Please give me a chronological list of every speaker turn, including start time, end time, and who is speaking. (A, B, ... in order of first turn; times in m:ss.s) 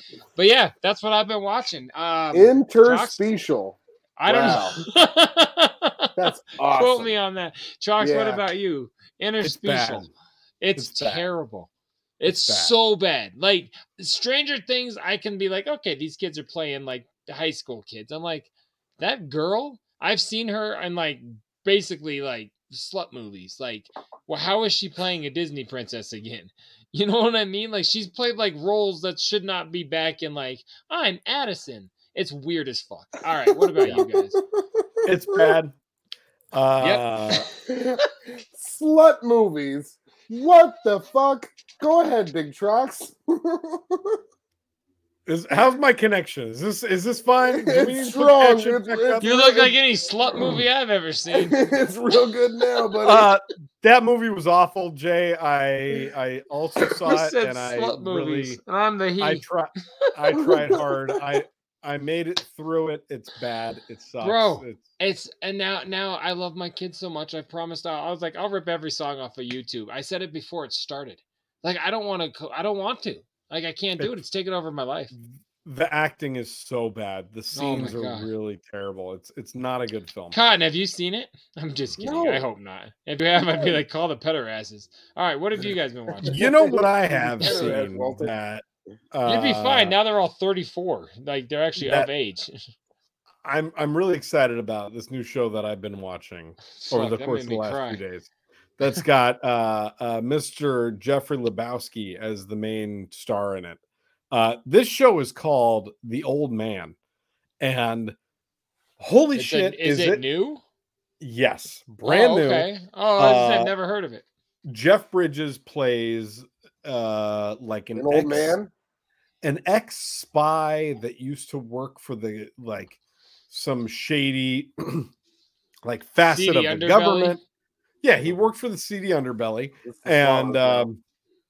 0:00.4-0:03.3 A
0:02.3-0:04.8 B
0:04.2-0:10.1 A
0:04.3-0:04.6 C
0:06.2-0:07.1 B
0:08.0-0:08.4 B
0:09.4-0:10.1 C
0:10.6-0:11.7 A
0:10.8-0:11.3 C
0:12.2-0:34.4 A
0:12.3-0:12.8 C
0:33.8-0:35.5 B
0:35.0-0:35.7 C
0:36.5-0:37.5 C
0:37.7-0:44.2 B
0:45.3-0:49.6 C
0:47.5-0:49.7 B
0:49.2-0:51.6 A
0:51.3-0:53.3 B
0:53.0-0:58.6 C
0:57.1-0:59.4 A
0:59.2-1:04.8 C
1:00.4-1:00.6 B
1:04.2-1:15.1 A
1:15.1-1:20.4 C
1:17.5-1:18.3 A
1:20.3-1:26.4 A
1:22.0-1:22.4 B
1:26.2-1:28.3 B
1:26.2-1:30.0 C
1:29.2-1:32.5 A
1:31.8-1:32.1 C
1:33.4-1:38.3 C
1:36.8-1:38.0 A
1:38.8-1:43.8 C
1:44.3-1:47.0 C
1:47.6-1:48.2 C
1:49.0-1:50.2 C
1:49.4-1:50.6 A
1:51.2-1:53.7 C
1:52.0-1:54.2 A
1:54.7-1:58.6 C
1:58.0-1:58.7 B
1:59.4-2:03.0 C
2:03.5-2:05.1 C
2:05.8-2:07.4 C
2:06.3-2:07.4 A
2:08.0-2:11.0 C
2:09.8-2:10.9 B